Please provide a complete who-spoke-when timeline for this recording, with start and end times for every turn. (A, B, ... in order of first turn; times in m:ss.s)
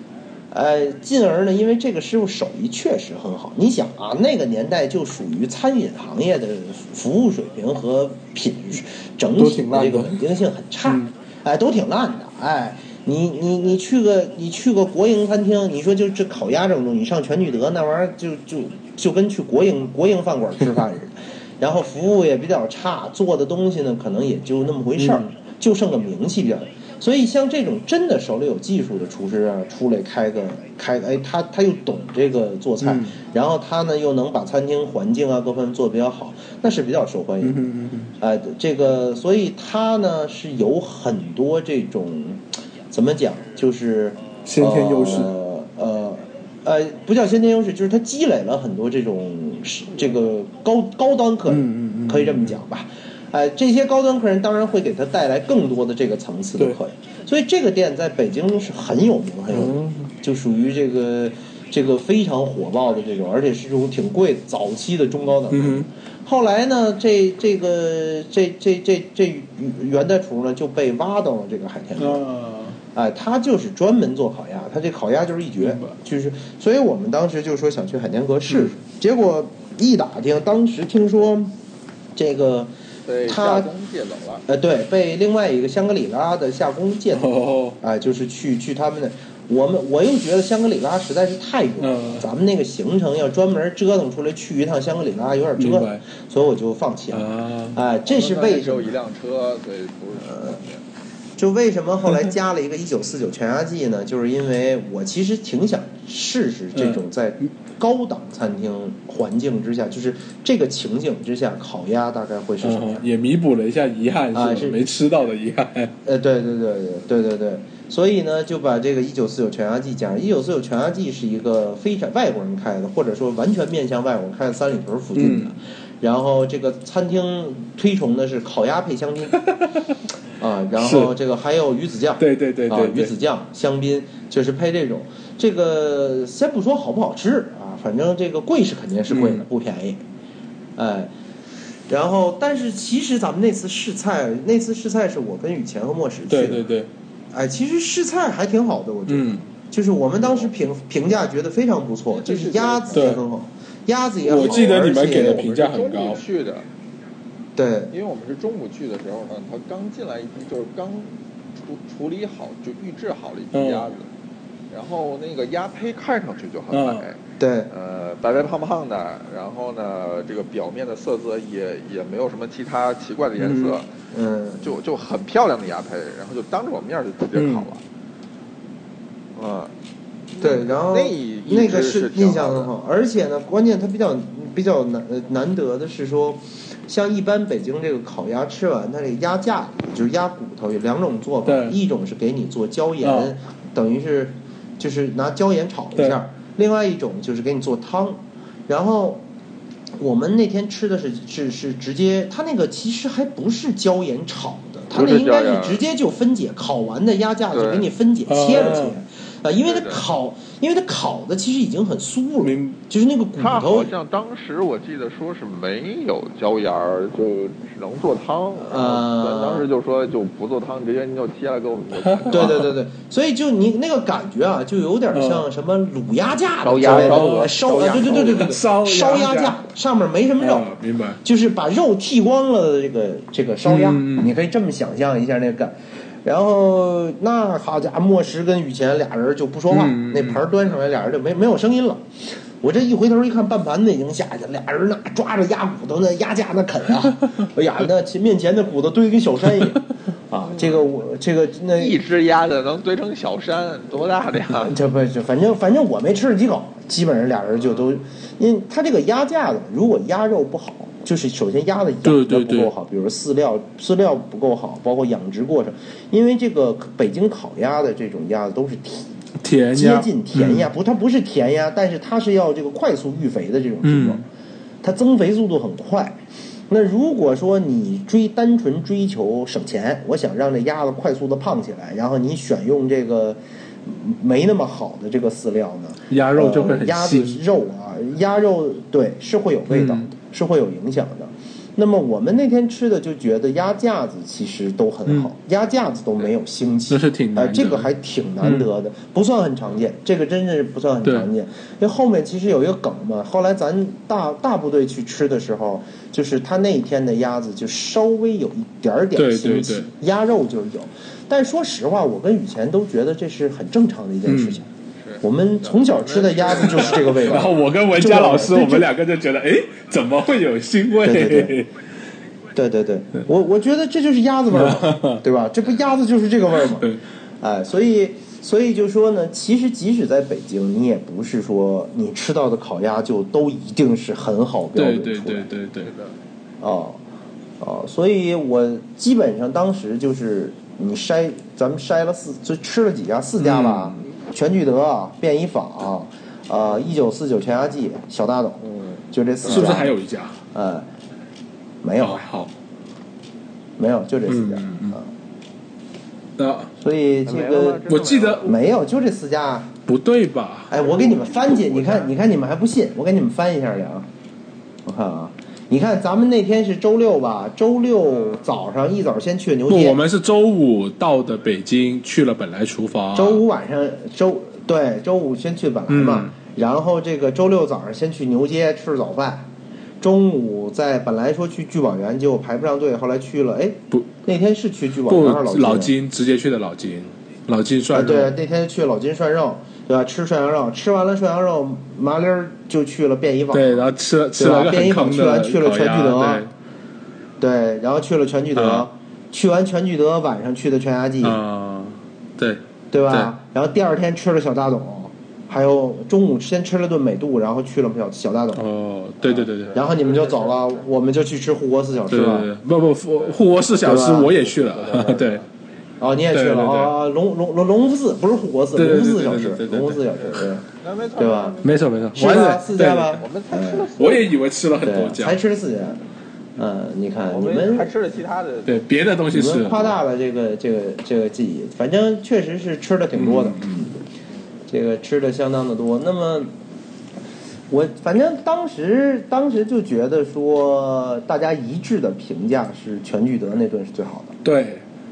0:00.5-0:37.6 A
0:09.4-0:10.2 B
0:10.8-0:11.1 B
0:25.0-0:25.3 B
0:32.8-0:33.2 B
0:37.4-0:38.1 B
0:38.2-1:12.2 A
0:44.4-0:45.3 B
0:51.5-0:52.6 B
0:59.5-1:00.1 B
1:05.5-1:05.9 B
1:12.0-1:12.8 B
1:12.9-1:21.6 A
1:15.6-1:15.9 B
1:18.5-1:18.8 B
1:22.2-1:22.7 A
1:23.1-1:24.4 C
1:23.3-1:23.7 A
1:24.5-1:38.9 A
1:27.1-1:27.8 B
1:31.8-1:32.3 B
1:35.6-1:36.0 B
1:37.1-1:37.8 B
1:38.1-1:40.8 C
1:40.2-1:40.6 A
1:41.4-1:53.0 A
1:46.7-1:47.0 B
1:52.6-1:55.9 B
1:54.3-1:54.8 A
1:56.0-2:09.4 A
2:05.2-2:05.5 B
2:09.3-2:10.0 B
2:10.4-2:20.0 A
2:10.8-2:11.1 B
2:12.2-2:13.1 B
2:19.1-2:19.5 B
2:20.8-2:21.1 A
2:21.9-2:26.7 A
2:26.3-2:26.9 B
2:27.3-2:35.5 A
2:29.1-2:29.4 B
2:30.2-2:30.5 C
2:32.2-2:33.2 C
2:32.9-2:33.2 B
2:34.2-2:36.2 B
2:34.3-2:36.7 C
2:37.6-2:37.9 A
2:37.9-2:44.1 C
2:43.5-2:43.9 B
2:44.7-2:53.9 C
2:46.7-2:47.1 B
2:47.4-2:47.7 A
2:53.4-2:53.8 B
2:54.1-2:54.7 A
2:54.6-2:57.8 C
2:57.4-2:57.7 B
2:59.4-2:59.7 C
3:00.4-3:02.7 C
3:00.4-3:19.2 A
3:11.5-3:11.8 B
3:13.0-3:13.3 B
3:20.0-3:33.9 A
3:24.9-3:25.8 C
3:27.5-3:27.9 C
3:28.3-3:29.0 B
3:28.5-3:28.8 C
3:29.6-3:30.0 C
3:32.4-3:32.8 B
3:33.4-3:42.6 C
3:38.6-3:39.7 A
3:42.0-3:42.7 B
3:42.3-4:02.0 A
3:45.1-3:45.5 B
3:46.6-3:48.6 C
3:46.8-3:47.5 B
3:48.1-3:49.6 B
3:50.4-3:51.2 B
3:53.6-3:54.3 B
3:59.7-4:00.4 B
4:02.6-4:12.0 A
4:10.4-4:10.9 C
4:11.7-4:14.8 C
4:14.7-4:29.2 A
4:22.0-4:22.7 B
4:29.4-4:30.7 B
4:29.7-4:34.2 A
4:33.8-4:34.2 B
4:34.8-4:36.2 A
4:36.7-5:14.7 A
4:46.1-4:47.4 B
4:49.7-4:50.1 B
4:56.9-4:57.9 B
4:58.4-4:58.7 B
5:01.0-5:01.3 B
5:09.2-5:09.9 B
5:14.3-5:14.6 B
5:15.0-5:17.5 C
5:15.2-5:18.9 A
5:16.6-5:21.7 B
5:21.0-5:21.6 A
5:22.6-5:35.5 A
5:24.5-5:25.2 B
5:26.6-5:27.0 B
5:34.8-5:35.9 B
5:35.8-5:36.2 C
5:36.6-5:37.0 A
5:37.6-5:48.6 A
5:43.4-5:44.0 B
5:48.6-5:49.7 C
5:49.1-5:50.0 A
5:49.5-5:50.4 B
5:50.5-5:50.9 A
5:51.8-5:52.3 A
5:52.0-5:52.5 B
5:53.8-5:55.1 A
5:54.3-5:55.0 B
5:56.4-5:56.7 B
5:56.8-5:57.9 A
5:57.3-5:58.7 C
5:57.9-5:58.5 B
5:58.4-5:59.8 A
5:59.9-6:00.7 B
6:00.7-6:04.1 A
6:00.8-6:02.1 C
6:04.9-6:10.0 A
6:09.7-6:13.4 B
6:13.2-6:19.5 A
6:15.9-6:16.3 B
6:20.0-6:25.9 A
6:25.1-6:28.4 B
6:27.9-6:36.5 A
6:33.5-6:36.5 B
6:37.4-6:41.4 A
6:38.5-6:38.9 B
6:41.2-6:43.3 B
6:42.9-6:48.6 A
6:48.5-6:49.8 B
6:49.4-6:50.6 C
6:49.7-6:52.5 A
6:52.1-6:55.4 B
6:53.2-6:55.5 C
6:53.8-6:55.1 A
6:56.0-7:00.6 A
6:56.3-6:56.9 B
6:58.8-7:00.0 B
7:00.2-7:01.8 C
7:01.2-7:01.6 A
7:01.6-7:03.2 B
7:02.2-7:03.9 A
7:03.2-7:04.3 C
7:04.0-7:05.4 B
7:04.8-7:06.0 A
7:06.6-7:07.9 A
7:07.3-7:08.8 C
7:08.7-7:10.0 B
7:09.3-7:14.0 A
7:13.2-7:13.9 B
7:14.7-7:16.5 A
7:17.7-7:24.4 A
7:24.4-7:24.8 B